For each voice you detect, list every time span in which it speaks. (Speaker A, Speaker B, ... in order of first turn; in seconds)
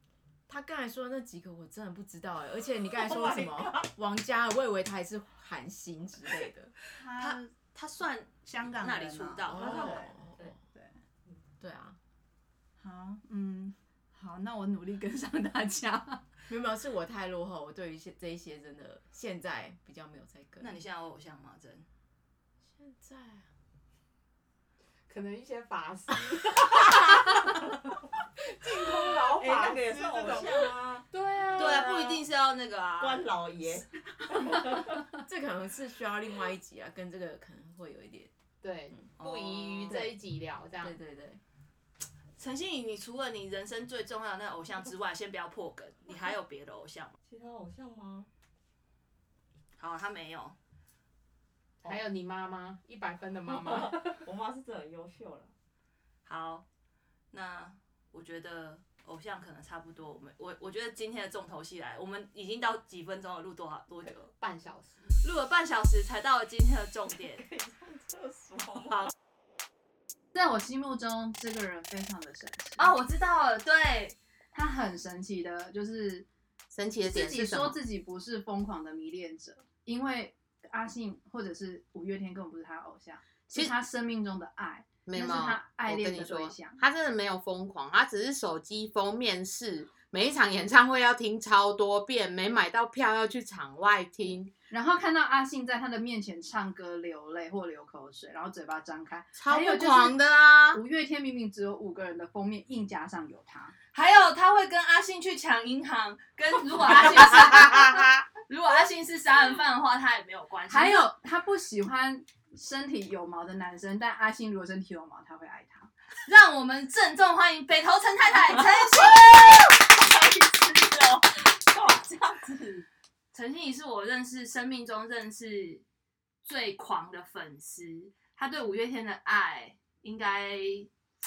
Speaker A: 0.5-6.7, 9.5-10.6, 11.6-12.0, 16.5-20.7, 22.6-23.5, 35.1-38.3, 39.9-40.1, 40.8-41.4
Speaker B: 3.0-3.9, 9.6-10.6, 29.3-32.2, 33.0-35.0, 47.2-48.3, 53.5-55.5, 67.4-69.1, 118.7-122.8
Speaker C: 6.9-7.5, 8.4-10.2, 12.8-16.2, 70.3-72.9, 74.5-76.3, 77.0-86.8, 94.7-100.2, 100.7-103.7, 110.7-115.9
Speaker D: 7.1-9.8, 20.6-21.9, 31.6-33.3, 39.2-40.0, 42.4-47.1, 49.8-50.5, 56.2-56.6, 57.3-64.3, 65.2-67.4, 72.8-74.2, 103.9-111.1, 116.2-119.7, 123.3-125.8, 126.4-130.9
Speaker E: 25.1-27.6, 28.4-32.0, 38.6-40.9, 51.8-54.2, 64.3-65.2, 76.7-77.8, 85.0-94.5, 99.4-100.8, 107.1-108.2